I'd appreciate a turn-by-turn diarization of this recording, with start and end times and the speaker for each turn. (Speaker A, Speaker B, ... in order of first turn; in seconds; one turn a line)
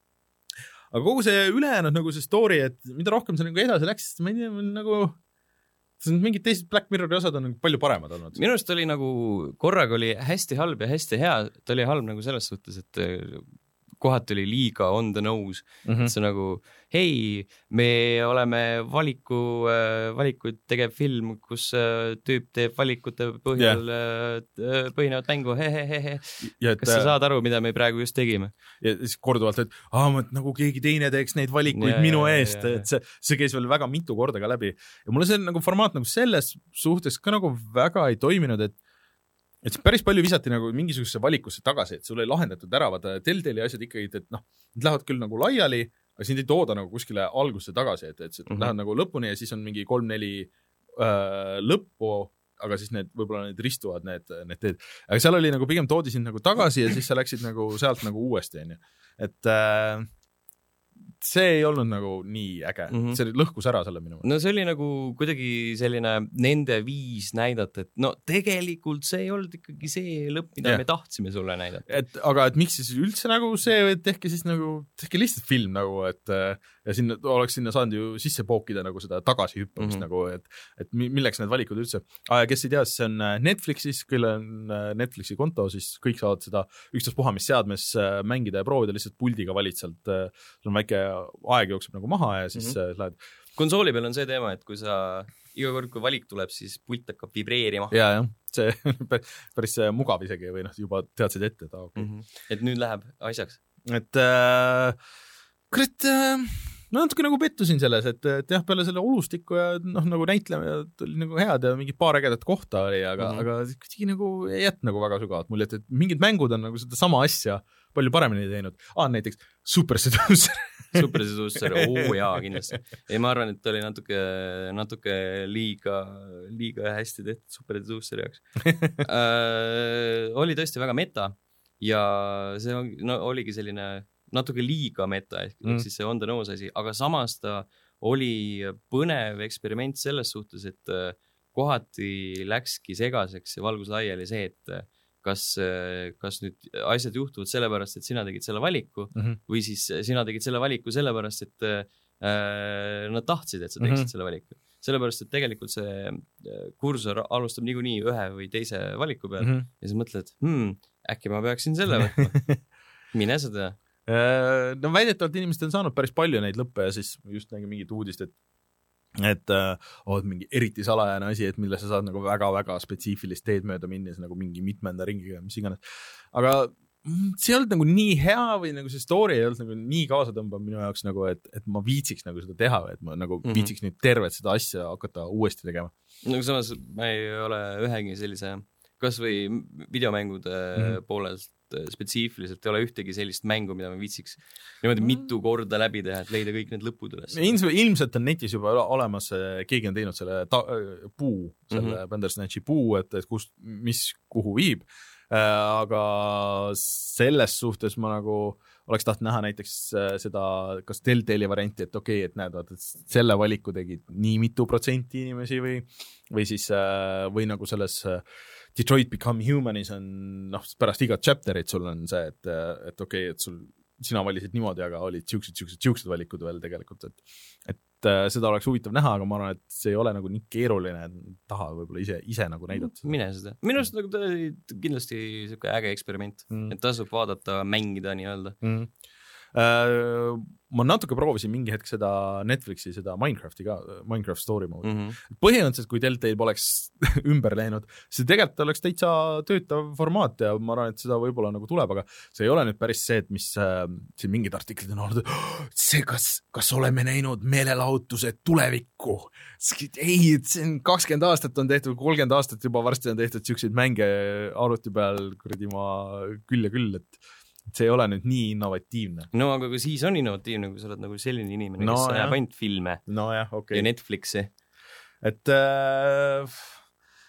Speaker A: 0.9-5.2
Speaker A: 6.0-8.4
Speaker B: 8.3-13.4
Speaker B: 14.0-28.5
Speaker A: 15.8-16.1
Speaker A: 23.6-23.8
Speaker A: 26.5-27.1
Speaker A: 28.8-38.8
Speaker B: 31.7-32.9
Speaker A: 39.6-60.1
Speaker B: 48.5-48.7
Speaker A: 61.2-64.3
Speaker B: 62.9-63.2
Speaker B: 64.2-71.9
Speaker A: 71.9-93.2
Speaker B: 93.6-98.0
Speaker A: 97.9-102.1
Speaker B: 102.0-103.6
Speaker A: 103.9-105.0
Speaker A: 105.7-122.7
Speaker B: 113.2-113.5
Speaker B: 121.0-128.5
Speaker A: 128.7-129.0
Speaker B: 129.0-162.4
Speaker A: 153.8-154.1
Speaker A: 159.4-159.7
Speaker A: 162.0-162.6
Speaker B: 163.1-163.8
Speaker A: 164.1-168.3
Speaker A: 169.2-175.8
Speaker A: 176.3-185.9
Speaker B: 183.4-183.7
Speaker B: 186.2-197.6
Speaker A: 197.3-218.2
Speaker B: 201.7-202.0
Speaker A: 218.8-233.2
Speaker B: 232.8-238.6
Speaker A: 236.5-236.8
Speaker A: 238.6-238.9
Speaker A: 239.5-269.3
Speaker B: 244.8-245.2
Speaker B: 269.3-273.0
Speaker A: 271.8-272.4
Speaker A: 273.1-273.9
Speaker B: 273.7-274.5
Speaker A: 275.2-276.7